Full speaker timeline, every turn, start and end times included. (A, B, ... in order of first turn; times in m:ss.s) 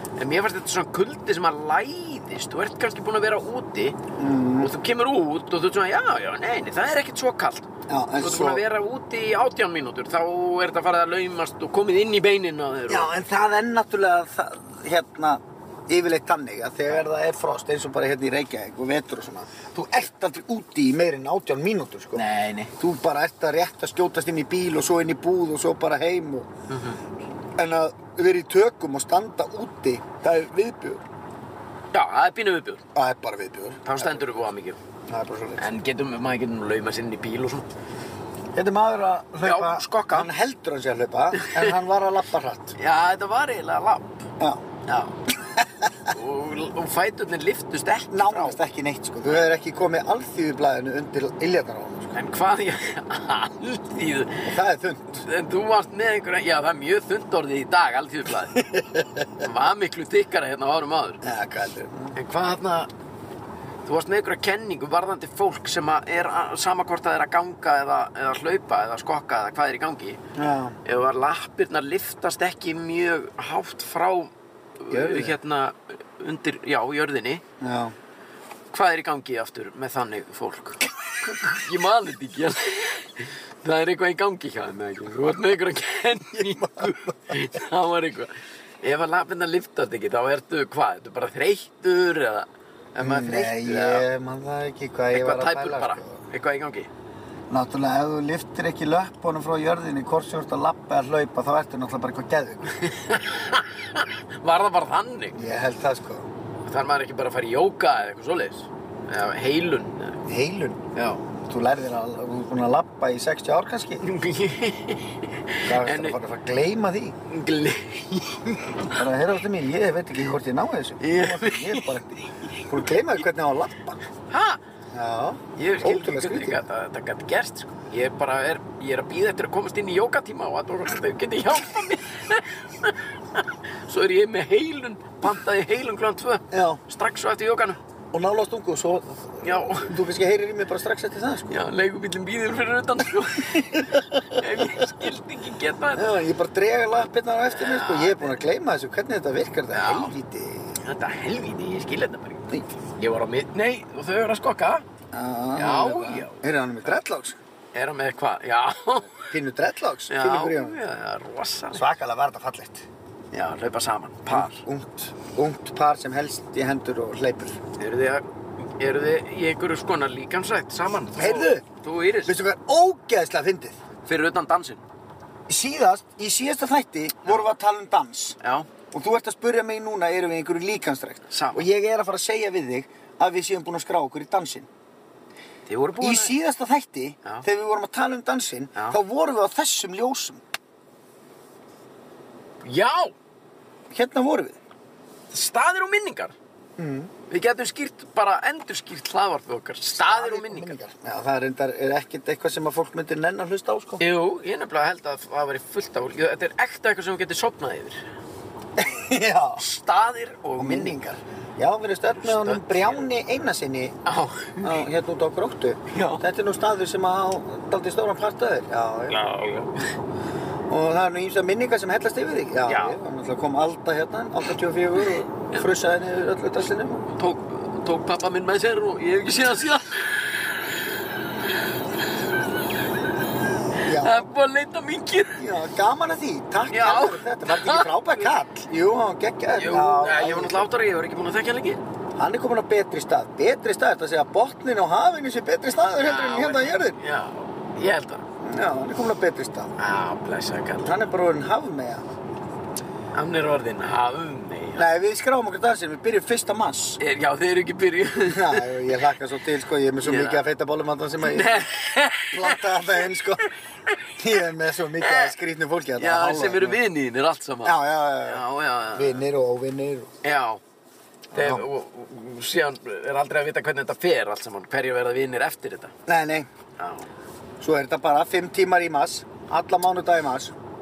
0:00.2-0:04.0 A
0:04.2-0:04.7 B
0:04.6-0:13.1 A
0:07.9-0:08.6 B
0:12.9-0:22.2 B
0:22.2-0:22.7 A
0:22.8-0:26.5 B
0:26.7-0:27.0 A
0:27.6-0:31.0 B
0:31.9-0:32.8 A
0:33.0-0:34.3 B
0:33.8-0:34.8 A
0:35.1-0:35.7 B
0:35.6-0:37.7 A
0:38.6-0:42.8 B
0:39.4-0:40.3 A
0:41.4-0:41.7 A
0:42.8-0:44.3 A
0:44.9-0:45.2 A
0:45.4-0:46.1 B
0:46.1-0:48.6 A
0:48.1-0:52.1 B
0:52.1-0:54.5 A
0:54.4-0:55.2 B
0:55.1-0:58.6 A
0:58.6-0:59.4 B
0:59.4-1:01.2 A
1:01.2-1:02.2 B
1:02.2-1:02.9 A
1:03.8-1:10.2 A
1:10.4-1:10.8 B
1:10.8-1:17.4 A
1:14.9-1:15.4 B
1:17.6-1:17.9 B
1:18.7-1:34.1 A
1:26.4-1:27.2 B
1:33.0-1:36.2 B
1:35.1-1:36.9 A
1:37.5-1:42.8 B
1:42.7-1:45.4 A
1:45.3-1:46.3 B
1:46.6-1:50.2 A
1:50.3-1:50.8 B
1:50.9-1:51.2 A
1:51.4-1:54.0 B
1:54.0-1:56.2 A
1:55.6-1:57.2 B
1:57.3-1:59.0 A
1:58.9-2:04.0 B
2:01.0-2:01.9 A
2:04.3-2:04.6 A
2:04.9-2:06.6 B
2:05.6-2:17.8 A
2:16.5-2:16.8 B
2:18.1-2:21.6 B
2:19.4-2:20.0 A
2:21.5-2:26.1 A
2:23.5-2:25.0 B
2:26.0-2:30.8 B
2:27.5-2:28.4 A
2:29.7-2:30.1 A
2:30.8-2:34.8 A
2:35.1-2:37.4 B
2:35.6-2:36.4 A
2:37.7-2:39.3 A
2:39.3-2:40.8 B
2:40.1-2:41.9 A
2:41.7-2:42.9 B
2:43.3-2:44.6 A
2:44.3-2:47.6 B
2:47.8-2:52.4 A
2:51.2-2:51.6 B
2:52.2-2:53.8 B
2:54.0-2:54.8 A
2:55.5-2:58.4 B
2:58.4-2:58.7 A
2:58.9-3:04.7 B
3:01.3-3:01.7 A
3:05.7-3:06.4 A
3:06.0-3:10.4 B
3:12.6-3:13.2 A
3:13.9-3:14.6 B
3:15.3-3:16.4 A
3:16.8-3:17.1 B
3:17.3-3:20.8 A
3:20.0-3:24.0 B
3:24.0-3:28.0 A
3:28.8-3:29.6 B
3:29.6-3:31.0 A
3:30.6-3:34.0 B
3:32.2-3:33.1 A
3:34.0-3:34.9 A
3:34.6-3:39.2 B
3:35.9-3:36.2 A
3:39.1-3:39.9 A
3:40.7-3:47.1 B
3:42.7-3:43.0 A
3:47.1-3:52.3 A
3:53.8-3:54.2 B
3:53.8-3:55.5 A
3:55.4-4:00.6 B
3:56.7-3:58.2 A
3:59.6-4:01.8 A
4:02.2-4:07.0 B
4:06.0-4:08.3 A
4:08.4-4:09.7 B
4:09.8-4:11.0 A
4:10.8-4:12.0 B
4:13.1-4:14.9 A
4:14.8-4:17.0 B
4:17.0-4:18.7 A
4:18.3-4:21.7 B
4:20.0-4:20.5 A
4:21.2-4:22.6 A
4:22.3-4:23.5 B
4:24.2-4:26.8 B
4:25.0-4:25.4 A
4:26.0-4:29.2 A
4:27.6-4:30.1 B
4:30.2-4:30.6 A
4:31.3-4:31.7 B
4:31.3-4:35.9 A
4:36.1-4:36.5 B
4:36.8-4:37.1 A
4:37.6-4:40.5 B